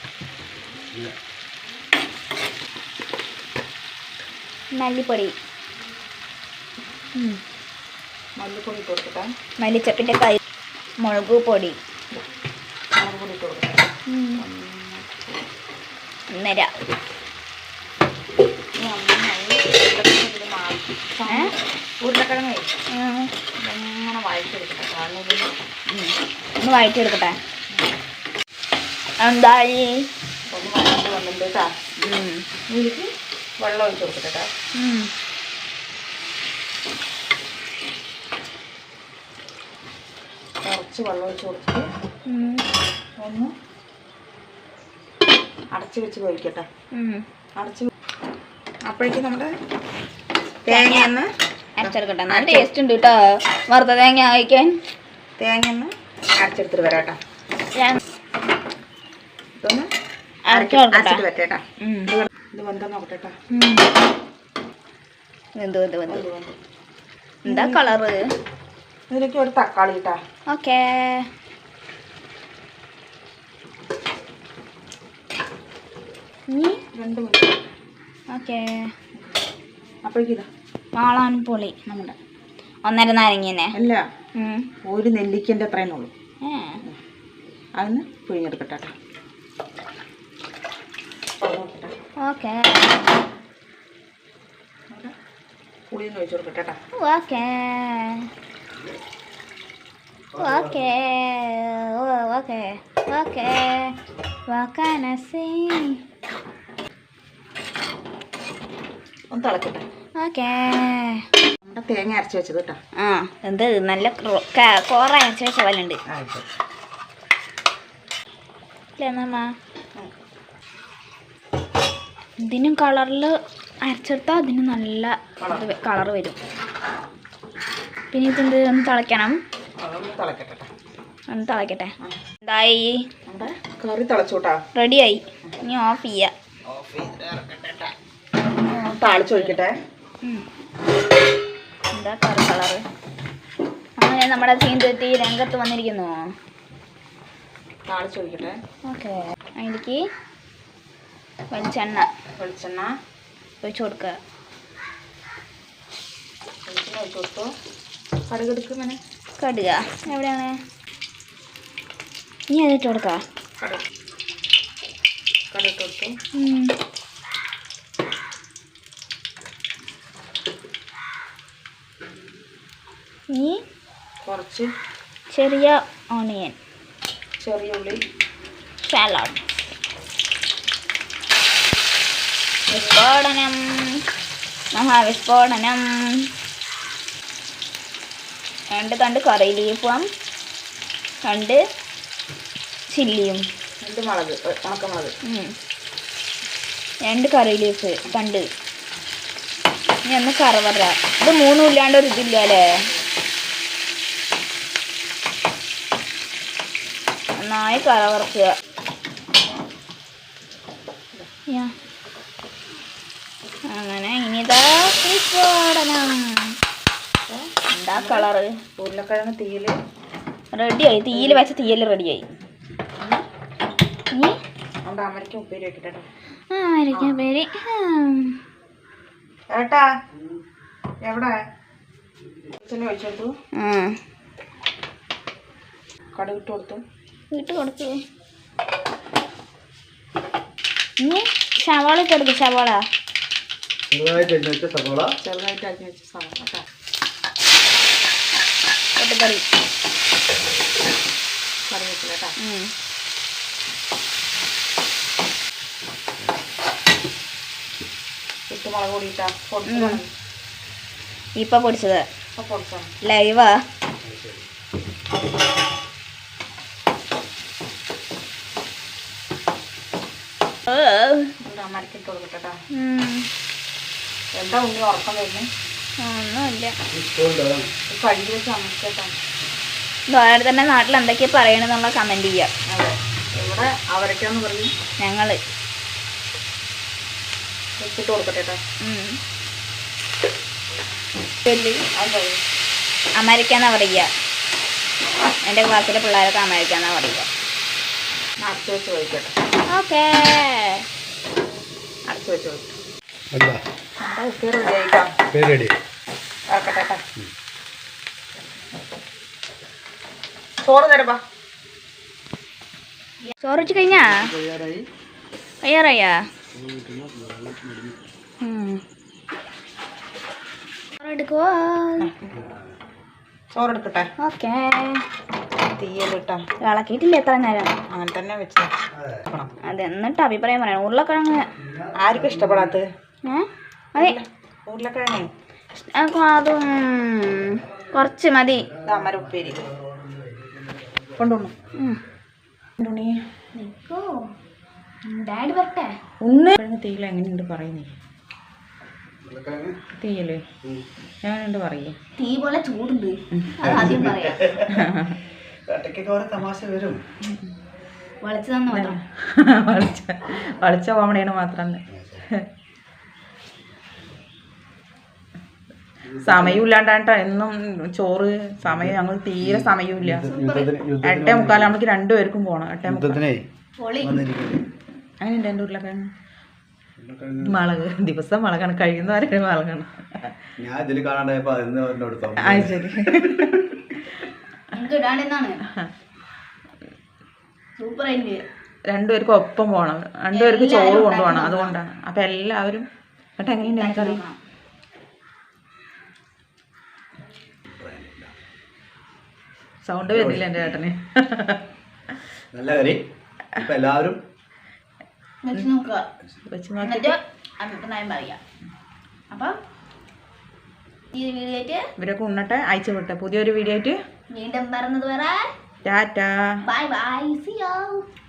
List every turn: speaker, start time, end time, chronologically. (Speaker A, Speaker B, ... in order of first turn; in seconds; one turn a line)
Speaker A: 4.7-5.3
Speaker A: 7.2-7.4
Speaker B: 8.4-9.3
Speaker A: 9.6-10.4
Speaker A: 11.0-11.8
Speaker B: 13.0-15.4
Speaker A: 14.1-14.4
Speaker A: 16.3-16.7
Speaker B: 18.8-22.7
Speaker A: 22.9-23.3
Speaker B: 23.6-25.5
Speaker A: 25.9-27.4
Speaker A: 29.2-29.9
Speaker B: 30.5-31.7
Speaker A: 32.0-32.4
Speaker B: 32.7-33.1
Speaker B: 33.6-34.5
Speaker A: 34.8-35.1
Speaker B: 40.6-41.9
Speaker A: 42.3-42.6
Speaker B: 43.2-43.5
Speaker B: 45.7-46.7
Speaker A: 46.9-47.2
Speaker B: 47.6-47.9
Speaker B: 48.9-49.5
Speaker B: 50.6-51.3
Speaker A: 50.7-51.1
Speaker A: 51.8-54.8
Speaker B: 51.8-52.7
Speaker B: 55.4-57.2
Speaker B: 59.6-59.9
Speaker A: 60.5-61.2
Speaker B: 60.5-63.4
Speaker A: 63.5-63.9
Speaker A: 65.6-66.2
Speaker B: 66.1-66.6
Speaker A: 67.4-68.2
Speaker B: 67.5-68.0
Speaker B: 69.1-70.2
Speaker A: 70.5-71.3
Speaker A: 76.5-76.8
Speaker B: 76.9-77.6
Speaker A: 78.3-78.7
Speaker B: 79.1-79.4
Speaker B: 80.0-80.5
Speaker A: 80.9-82.1
Speaker A: 82.8-83.7
Speaker B: 83.7-84.0
Speaker A: 84.4-84.7
Speaker B: 84.8-86.1
Speaker A: 86.4-86.8
Speaker B: 87.8-88.9
Speaker B: 91.4-91.9
Speaker A: 92.2-93.0
Speaker B: 94.9-95.1
Speaker B: 95.9-96.8
Speaker A: 97.0-98.2
Speaker C: 100.3-100.9
Speaker A: 100.4-103.9
Speaker A: 104.5-106.0
Speaker B: 109.3-109.8
Speaker A: 110.2-111.2
Speaker B: 111.6-112.8
Speaker A: 113.0-116.0
Speaker B: 116.1-116.5
Speaker A: 119.0-119.5
Speaker A: 122.4-126.4
Speaker B: 125.4-125.6
Speaker A: 128.1-129.4
Speaker B: 129.8-130.7
Speaker A: 131.3-131.9
Speaker A: 132.4-133.0
Speaker B: 133.2-134.6
Speaker A: 134.7-136.3
Speaker B: 136.7-137.9
Speaker B: 138.7-139.8
Speaker A: 139.2-139.5
Speaker A: 141.9-142.8
Speaker A: 144.0-146.2
Speaker B: 147.9-148.6
Speaker A: 148.9-150.0
Speaker A: 151.5-152.1
Speaker B: 152.4-152.9
Speaker A: 153.6-154.2
Speaker B: 156.7-157.5
Speaker B: 158.3-159.0
Speaker A: 159.4-160.5
Speaker A: 162.5-163.2
Speaker B: 165.5-166.1
Speaker A: 166.3-166.7
Speaker A: 173.3-173.6
Speaker B: 174.2-174.7
Speaker A: 175.3-176.6
Speaker B: 177.4-178.0
Speaker A: 178.8-179.4
Speaker A: 182.7-183.6
Speaker A: 184.7-186.3
Speaker A: 188.7-190.0
Speaker A: 191.2-191.6
Speaker A: 192.9-193.4
Speaker B: 193.8-195.1
Speaker A: 195.2-195.5
Speaker A: 197.1-198.4
Speaker A: 200.1-202.7
Speaker A: 207.4-208.5
Speaker A: 213.7-216.5
Speaker B: 217.3-219.7
Speaker A: 217.7-218.5
Speaker A: 220.5-222.2
Speaker B: 221.1-221.5
Speaker B: 224.8-226.1
Speaker A: 226.5-228.3
Speaker B: 226.9-227.2
Speaker B: 229.5-229.8
Speaker B: 231.0-231.4
Speaker B: 232.6-233.3
Speaker A: 233.6-234.0
Speaker B: 236.1-236.8
Speaker A: 237.3-238.0
Speaker A: 241.0-242.8
Speaker C: 243.9-245.1
Speaker B: 245.2-246.6
Speaker A: 249.0-249.4
Speaker B: 251.7-252.3
Speaker A: 252.4-252.7
Speaker B: 258.5-260.1
Speaker A: 259.7-260.0
Speaker A: 261.4-262.0
Speaker B: 262.4-262.9
Speaker A: 263.0-263.6
Speaker C: 264.0-264.4
Speaker A: 270.7-271.3
Speaker B: 271.4-272.6
Speaker A: 272.7-273.3
Speaker B: 274.3-275.5
Speaker A: 276.0-276.7
Speaker C: 276.9-277.7
Speaker B: 277.9-279.1
Speaker A: 280.1-282.5
Speaker B: 282.7-284.7
Speaker A: 285.0-285.4
Speaker B: 287.8-288.6
Speaker A: 288.8-289.2
Speaker A: 291.5-291.8
Speaker B: 291.9-292.4
Speaker A: 293.2-294.1
Speaker A: 295.4-297.3
Speaker B: 298.4-299.3
Speaker A: 299.7-300.8
Speaker B: 302.1-302.8
Speaker C: 303.3-303.6
Speaker B: 304.0-305.1
Speaker C: 305.3-305.8
Speaker B: 306.5-307.0
Speaker B: 310.6-311.2
Speaker A: 313.3-314.2
Speaker C: 313.7-314.9
Speaker A: 315.6-316.2
Speaker C: 316.5-318.0
Speaker A: 318.4-318.8
Speaker A: 321.0-322.1
Speaker B: 322.0-322.4
Speaker C: 322.3-322.8
Speaker B: 323.5-324.1
Speaker A: 324.2-325.0
Speaker B: 325.7-326.5
Speaker A: 326.6-327.7
Speaker B: 327.9-328.7
Speaker C: 328.9-329.2
Speaker A: 329.6-331.4
Speaker C: 331.6-332.8
Speaker B: 331.9-332.9
Speaker A: 333.2-334.2
Speaker B: 334.0-335.3
Speaker A: 335.8-338.7
Speaker C: 337.6-342.1
Speaker B: 338.8-339.7
Speaker B: 341.2-341.5
Speaker A: 341.7-342.0
Speaker B: 342.8-343.1
Speaker A: 343.5-344.1
Speaker A: 345.1-345.9
Speaker B: 346.2-347.9
Speaker C: 349.2-349.8
Speaker B: 350.0-350.4
Speaker B: 351.2-352.0
Speaker A: 352.1-354.4
Speaker C: 353.6-354.8
Speaker B: 354.7-355.2
Speaker C: 355.7-357.0
Speaker A: 358.2-358.9
Speaker B: 358.7-362.4
Speaker C: 361.9-362.3
Speaker C: 366.1-366.7
Speaker B: 366.2-370.3
Speaker C: 368.6-371.8
Speaker A: 370.3-370.7
Speaker B: 371.0-373.2
Speaker C: 372.9-373.4
Speaker A: 373.8-374.2
Speaker C: 374.0-374.6
Speaker B: 375.2-376.1
Speaker C: 377.0-377.7
Speaker B: 377.4-380.3
Speaker C: 380.6-382.8
Speaker B: 382.4-383.7
Speaker A: 384.7-385.6
Speaker A: 387.8-388.4
Speaker B: 388.9-392.9
Speaker A: 390.3-391.7
Speaker B: 393.4-394.2
Speaker A: 393.6-394.4
Speaker C: 397.6-398.3
Speaker B: 399.8-401.6
Speaker C: 400.0-400.7
Speaker C: 402.5-403.0
Speaker C: 403.5-404.2
Speaker A: 405.4-406.0
Speaker B: 406.5-407.1
Speaker A: 406.8-408.4
Speaker A: 409.3-409.6
Speaker A: 411.1-411.8
Speaker B: 412.0-413.9
Speaker A: 414.3-415.4
Speaker B: 415.8-416.4
Speaker A: 416.6-418.1